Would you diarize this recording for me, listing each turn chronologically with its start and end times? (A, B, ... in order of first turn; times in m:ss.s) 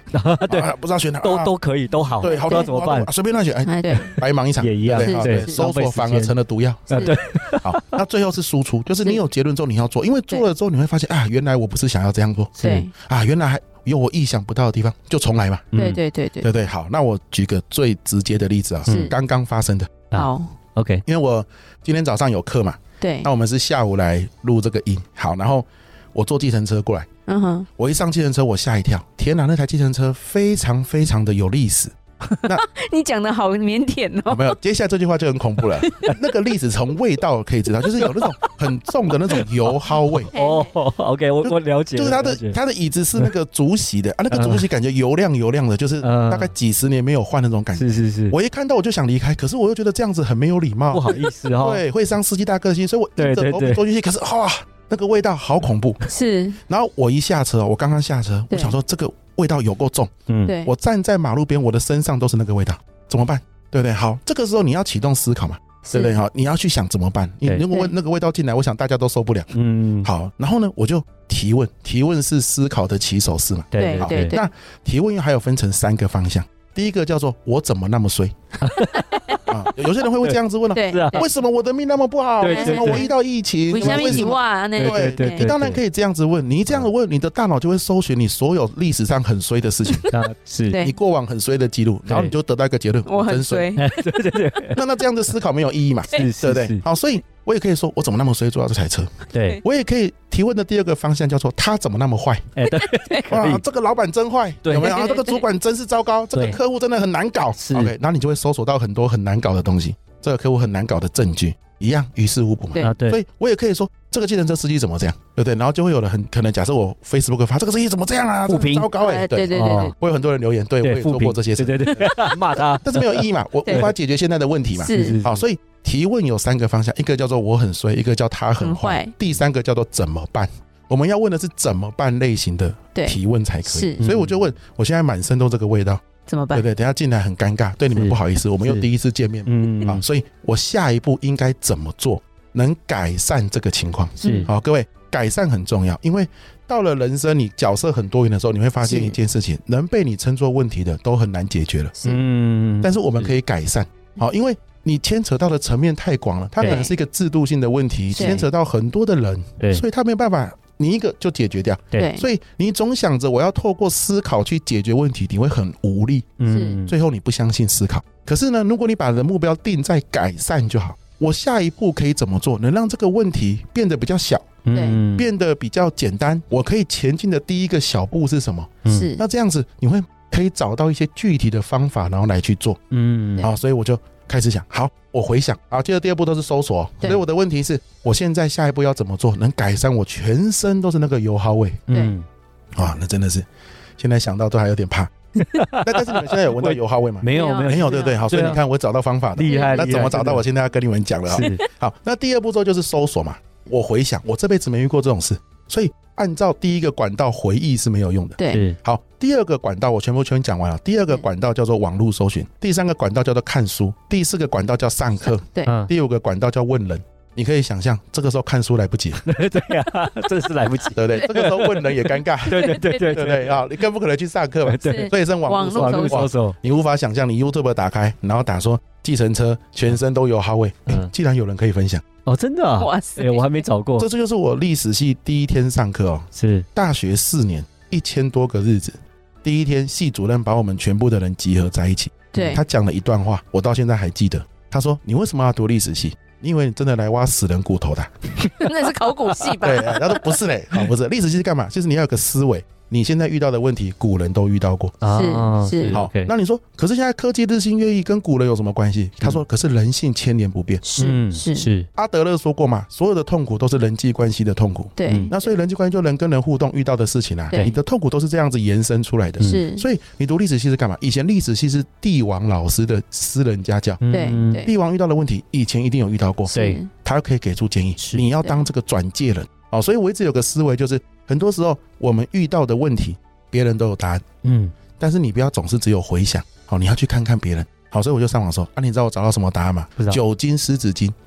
0:00.1-0:03.1 A
0:00.5-0:01.5 B
0:02.2-0:15.8 B
0:02.2-0:02.7 C
0:03.6-0:04.2 C
0:04.0-0:06.3 A
0:05.0-0:05.6 C
0:06.9-0:08.0 A
0:12.6-0:12.9 A
0:12.6-0:12.9 C
0:15.7-0:16.0 A
0:15.8-0:16.5 C
0:16.4-0:20.0 B
0:18.8-0:19.1 A
0:18.9-0:19.1 C
0:20.1-0:21.0 A
0:20.1-0:20.5 C
0:21.1-0:27.1 B
0:23.0-0:23.3 C
0:27.3-0:27.7 C
0:27.8-0:32.6 B
0:32.4-0:34.6 C
0:34.3-0:40.3 B
0:35.9-0:36.2 C
0:40.1-0:42.6 A
0:40.3-0:40.8 C
0:41.4-0:56.0 B
0:44.3-0:44.7 A
0:46.0-0:46.5 A
0:47.8-0:48.4 A
0:50.9-0:51.8 A
0:53.2-0:53.8 A
0:56.1-0:56.6 C
0:56.7-1:00.1 B
0:58.5-0:58.8 C
1:00.3-1:00.5 A
1:00.6-1:18.4 B
1:05.8-1:06.2 C
1:09.5-1:10.1 A
1:13.7-1:14.3 A
1:13.7-1:14.5 C
1:18.6-1:19.6 A
1:18.9-1:19.4 C
1:19.5-1:30.1 B
1:20.7-1:21.2 C
1:20.9-1:21.2 A
1:22.4-1:23.1 A
1:22.4-1:23.1 C
1:23.7-1:25.5 C
1:23.8-1:25.8 A
1:30.1-1:30.8 A
1:30.7-1:31.0 C
1:30.8-1:33.7 B
1:32.1-1:32.3 A
1:33.1-1:33.9 C
1:33.8-1:34.8 A
1:34.7-1:39.1 B
1:36.1-1:36.8 A
1:39.3-1:39.6 A
1:39.6-1:42.5 B
1:42.6-1:43.6 A
1:42.7-1:43.3 C
1:43.3-2:32.0 B
1:44.6-1:45.3 A
1:44.8-1:45.4 C
1:46.3-1:46.6 A
1:47.6-1:47.9 A
1:52.8-1:53.2 A
1:58.5-1:58.9 A
1:59.0-1:59.9 C
1:59.5-2:00.0 A
2:00.8-2:03.9 A
2:04.8-2:05.2 C
2:04.9-2:05.4 A
2:08.6-2:09.1 C
2:13.0-2:14.0 C
2:14.0-2:14.3 A
2:16.3-2:16.7 C
2:17.9-2:18.8 A
2:19.5-2:20.0 A
2:24.2-2:24.5 C
2:24.2-2:24.5 A
2:28.8-2:29.2 C
2:32.0-2:33.3 A
2:32.8-3:02.8 B
2:36.6-2:36.9 C
2:38.1-2:38.5 C
2:41.9-2:42.3 C
2:46.4-2:47.0 A
2:46.5-2:46.8 C
2:54.6-2:55.3 A
2:54.7-2:55.0 C
2:58.9-2:59.2 C
3:02.9-3:03.5 A
3:03.4-3:11.9 B
3:11.9-3:12.3 A
3:12.8-3:13.5 B
3:14.0-3:15.1 B
3:15.4-3:18.6 A
3:15.8-3:39.2 B
3:17.3-3:18.2 C
3:19.4-3:20.4 A
3:19.5-3:20.1 C
3:21.3-3:21.6 A
3:28.4-3:28.7 C
3:28.5-3:28.8 A
3:35.6-3:35.9 A
3:39.2-3:43.7 A
3:41.0-3:52.0 B
3:42.8-3:43.0 C
3:44.6-3:46.6 A
3:44.8-3:46.3 C
3:52.3-3:54.1 A
3:52.8-3:53.6 C
3:54.0-4:08.1 B
3:56.4-3:56.7 A
4:02.3-4:02.6 C
4:08.4-4:10.4 C
4:09.6-4:15.0 B
4:15.0-4:16.3 A
4:15.1-4:16.0 C
4:15.9-4:20.8 B
4:20.8-4:21.7 C
4:21.0-4:21.9 A
4:22.0-4:44.3 B
4:25.0-4:25.5 C
4:25.1-4:25.3 A
4:29.4-4:29.9 C
4:34.0-4:34.7 A
4:34.1-4:34.7 C
4:36.5-4:36.9 C
4:36.5-4:36.8 A
4:38.0-4:38.2 A
4:44.4-4:44.7 A
4:45.0-4:51.2 B